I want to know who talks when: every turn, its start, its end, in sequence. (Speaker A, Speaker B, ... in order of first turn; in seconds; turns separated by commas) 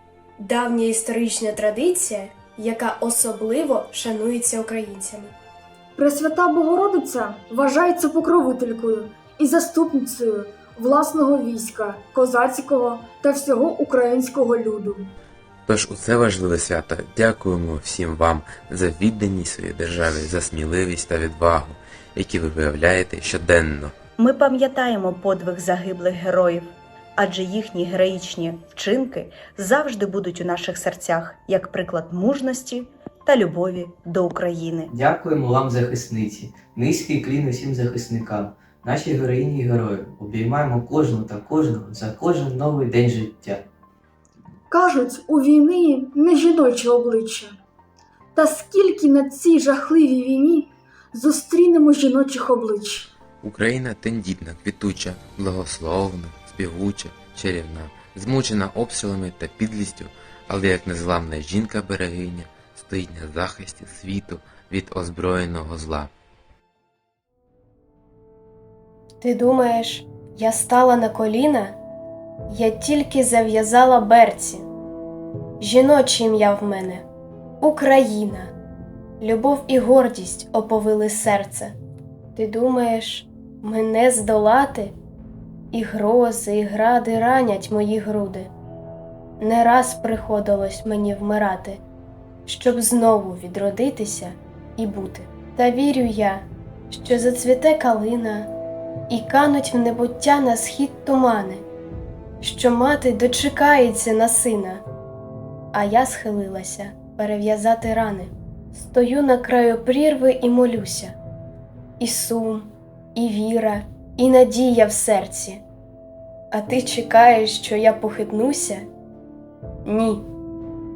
Speaker A: 0.4-5.3, Speaker B: 6.0-15.1, Speaker C: 15.7-23.9, Speaker D: 24.2-34.9, Speaker E: 34.9-43.7, Speaker B: 44.7-47.5, Speaker B: 48.3-53.1, Speaker C: 53.4-66.1, Speaker A: 69.2-71.8, Speaker A: 72.5-74.7, Speaker A: 75.6-77.0, Speaker A: 77.6-78.5, Speaker A: 79.2-81.7, Speaker A: 82.3-84.9, Speaker A: 85.7-88.5, Speaker A: 89.4-91.8, Speaker A: 92.5-98.5, Speaker A: 99.1-101.6, Speaker A: 102.4-104.8, Speaker A: 105.7-111.2, Speaker A: 112.0-115.6, Speaker A: 116.5-118.8, Speaker A: 119.8-120.2